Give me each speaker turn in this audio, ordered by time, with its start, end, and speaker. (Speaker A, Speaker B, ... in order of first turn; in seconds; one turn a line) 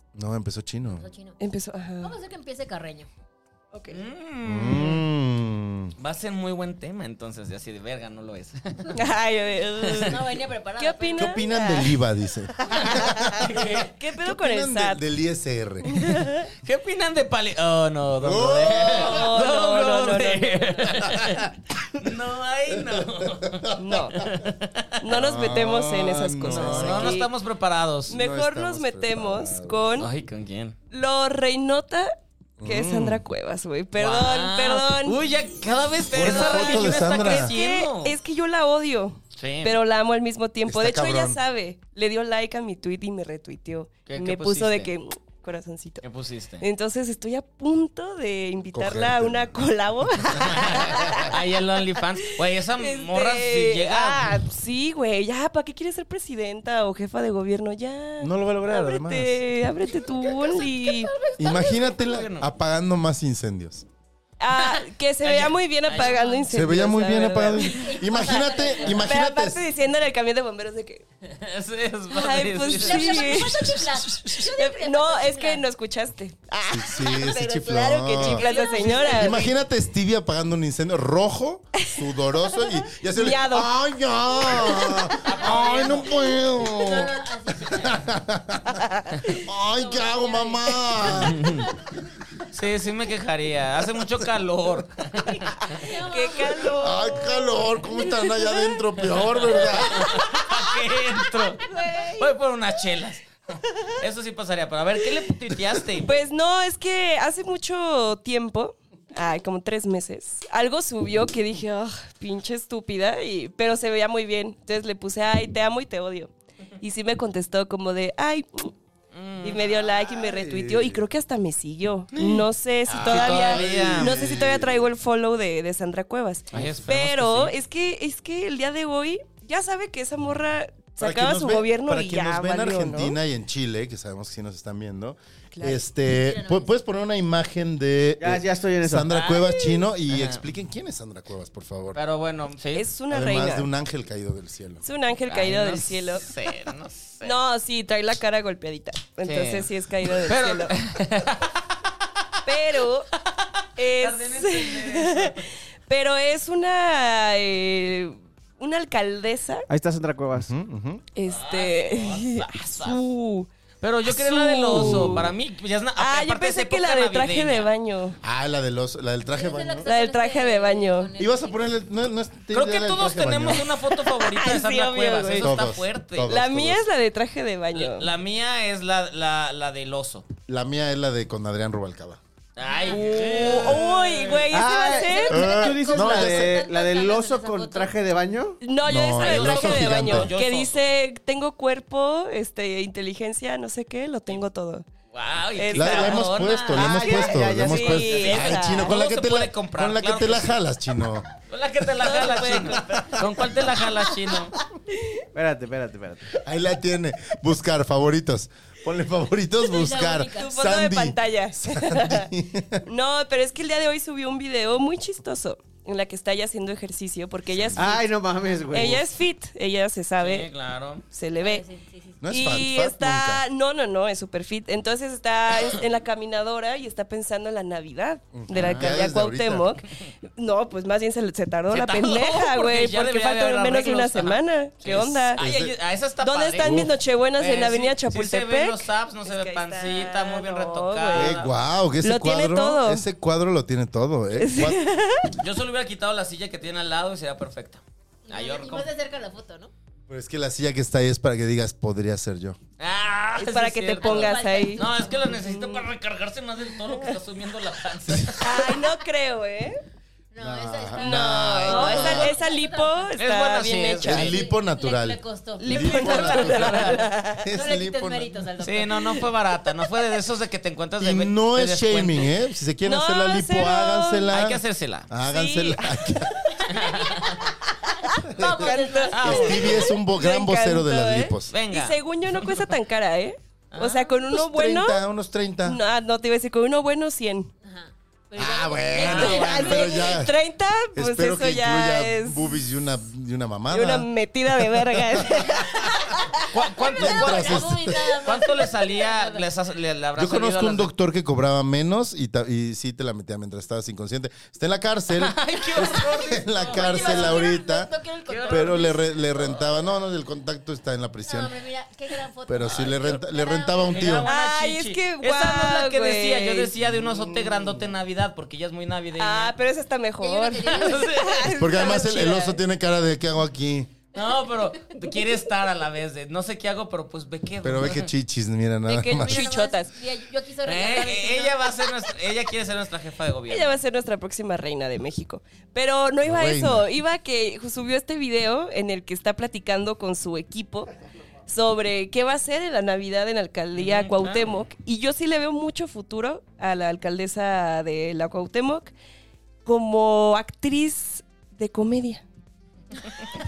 Speaker A: 0.1-1.1
Speaker B: 0.9-1.4
Speaker C: 1.4-2.2
Speaker B: 2.0-3.1
Speaker C: 3.7-4.0
Speaker D: 3.9-5.0
Speaker A: 4.4-5.9
Speaker D: 6.0-9.0
Speaker C: 8.9-10.2
Speaker D: 9.8-10.2
Speaker B: 10.0-11.4
Speaker C: 10.8-12.0
Speaker A: 11.2-16.1
Speaker C: 12.6-15.0
Speaker D: 12.8-13.9
Speaker C: 15.8-16.5
Speaker D: 16.6-24.9
Speaker A: 18.2-19.2
Speaker C: 18.8-20.9
Speaker A: 22.7-24.5
Speaker C: 23.8-24.2
Speaker C: 25.0-27.3
Speaker A: 25.1-27.2
Speaker D: 26.5-28.2
Speaker A: 28.1-29.9
Speaker C: 28.1-30.1
Speaker D: 30.0-30.8
Speaker C: 30.9-35.2
Speaker A: 32.6-33.2
Speaker D: 34.0-38.2
Speaker A: 36.1-37.5
Speaker C: 36.2-46.0
Speaker D: 39.4-39.8
Speaker A: 40.7-41.4
Speaker D: 44.1-44.9
Speaker D: 46.0-46.6
Speaker C: 46.6-51.3
Speaker A: 48.7-49.6
Speaker D: 50.4-54.4
Speaker A: 50.6-51.4
Speaker C: 52.8-61.1
Speaker A: 58.2-59.4
Speaker B: 60.4-61.7
Speaker A: 61.4-63.9
Speaker D: 62.0-62.5
Speaker C: 64.4-68.0
Speaker D: 64.5-66.5
Speaker A: 66.5-69.6
Speaker B: 67.7-69.1
Speaker C: 68.9-71.0
Speaker D: 71.3-73.7
Speaker C: 72.1-79.5
Speaker B: 72.7-75.7
Speaker A: 76.7-78.5
Speaker B: 78.1-79.5
Speaker A: 79.1-91.5
Speaker C: 81.8-83.7
Speaker C: 84.5-85.0
Speaker B: 85.1-88.1
Speaker D: 85.2-86.2
Speaker C: 88.7-89.4
Speaker B: 89.6-91.9
Speaker D: 91.1-91.7
Speaker D: 92.5-95.5
Speaker C: 95.5-98.8
Speaker B: 95.7-97.1
Speaker A: 96.8-100.1
Speaker D: 99.0-106.1
Speaker B: 101.6-102.3
Speaker C: 106.0-118.7
Speaker D: 119.1-119.7
Speaker C: 119.4-133.2
Speaker A: 120.0-121.0
Speaker D: 122.1-124.2
Speaker A: 122.9-124.9
Speaker D: 126.5-127.5
Speaker A: 131.0-142.0
Speaker C: 135.5-135.8
Speaker B: 136.1-136.7
Speaker E: 138.2-139.1
Speaker D: 139.1-140.4
Speaker D: 141.9-142.9
Speaker C: 142.8-143.7
Speaker A: 143.1-144.8
Speaker C: 144.8-146.3
Speaker D: 145.3-147.4
Speaker C: 147.2-150.8
Speaker D: 149.3-151.9
Speaker C: 152.4-153.1
Speaker D: 153.3-155.5
Speaker C: 153.8-159.7
Speaker E: 159.7-160.5
Speaker A: 160.3-161.1
Speaker C: 161.1-163.5
Speaker D: 161.3-163.0
Speaker D: 163.8-167.7
Speaker C: 164.1-165.3
Speaker A: 164.7-165.3
Speaker C: 166.0-168.2
Speaker A: 168.2-169.9
Speaker B: 169.3-171.8
Speaker C: 169.9-171.1
Speaker A: 171.2-173.7
Speaker D: 172.5-176.3
Speaker C: 173.8-175.5
Speaker A: 175.4-176.8
Speaker C: 176.3-178.1
Speaker D: 177.7-180.3
Speaker A: 180.5-182.2
Speaker D: 182.6-184.5
Speaker B: 182.6-183.0
Speaker C: 182.9-185.6
Speaker A: 183.5-183.7
Speaker E: 184.5-188.6
Speaker B: 185.0-187.9
Speaker A: 185.3-186.6
Speaker C: 188.6-194.8
Speaker A: 188.8-190.3
Speaker D: 189.1-190.8
Speaker D: 195.1-197.1
Speaker C: 195.6-196.3
Speaker A: 195.7-201.3
Speaker E: 196.7-198.5
Speaker C: 196.9-199.0
Speaker D: 198.0-200.6
Speaker D: 201.5-204.5
Speaker C: 202.0-203.3
Speaker A: 202.1-203.3
Speaker C: 204.9-205.2
Speaker E: 205.3-206.3
Speaker A: 206.4-212.8
Speaker B: 209.7-210.6
Speaker C: 210.3-212.3
Speaker C: 212.8-218.1
Speaker A: 217.5-217.9
Speaker E: 217.8-219.0
Speaker C: 218.7-220.5
Speaker D: 220.2-221.0
Speaker C: 221.1-221.6
Speaker B: 221.4-222.2
Speaker A: 222.2-223.4
Speaker C: 222.3-235.4
Speaker A: 228.3-229.7
Speaker D: 228.5-228.9
Speaker D: 231.7-241.6
Speaker A: 234.9-235.8
Speaker C: 236.2-241.4
Speaker A: 236.6-236.9
Speaker A: 241.1-244.8
Speaker C: 242.0-243.1
Speaker C: 244.4-245.4
Speaker D: 245.4-248.9
Speaker B: 248.3-249.7
Speaker A: 250.1-252.6
Speaker D: 252.8-258.6
Speaker C: 253.4-255.9
Speaker B: 254.0-255.3
Speaker C: 256.8-257.1
Speaker A: 258.1-258.4
Speaker C: 258.4-259.8
Speaker B: 260.3-263.1
Speaker A: 260.4-262.4
Speaker C: 261.0-264.4
Speaker D: 263.2-264.3
Speaker A: 264.0-268.4
Speaker B: 264.1-266.5
Speaker C: 265.6-267.5
Speaker D: 265.7-267.1
Speaker B: 267.5-269.3
Speaker D: 268.6-272.3
Speaker A: 271.0-276.6
Speaker C: 272.9-274.3
Speaker D: 274.3-275.1
Speaker C: 275.3-276.3
Speaker B: 276.6-279.9
Speaker D: 276.7-277.5
Speaker C: 277.7-285.0
Speaker A: 278.3-278.7
Speaker D: 279.1-279.9
Speaker A: 279.2-281.6
Speaker D: 281.5-282.7
Speaker D: 283.7-284.1
Speaker A: 284.3-285.8
Speaker C: 285.6-287.5
Speaker B: 287.6-290.2
Speaker A: 288.3-290.3
Speaker D: 288.9-289.9
Speaker C: 289.0-292.5
Speaker A: 290.9-295.9
Speaker C: 293.7-295.9
Speaker B: 295.8-296.2
Speaker D: 296.5-300.9
Speaker B: 296.8-299.5
Speaker A: 297.0-298.2
Speaker A: 300.2-307.9
Speaker D: 305.1-307.5
Speaker B: 306.7-309.1
Speaker D: 308.3-308.9
Speaker A: 308.5-311.5
Speaker B: 311.2-314.2
Speaker A: 312.5-314.3
Speaker D: 312.6-313.2
Speaker D: 313.9-319.6
Speaker C: 314.2-316.7
Speaker A: 316.8-317.8
Speaker C: 319.2-322.6
Speaker B: 320.2-321.3
Speaker D: 320.6-322.2
Speaker A: 321.6-323.9
Speaker D: 324.1-328.1
Speaker A: 327.6-329.4
Speaker C: 328.9-329.9
Speaker B: 329.1-331.9
Speaker D: 330.7-333.8
Speaker C: 333.5-340.9
Speaker A: 336.2-336.9
Speaker C: 341.5-348.9
Speaker D: 343.7-344.5
Speaker C: 349.6-352.2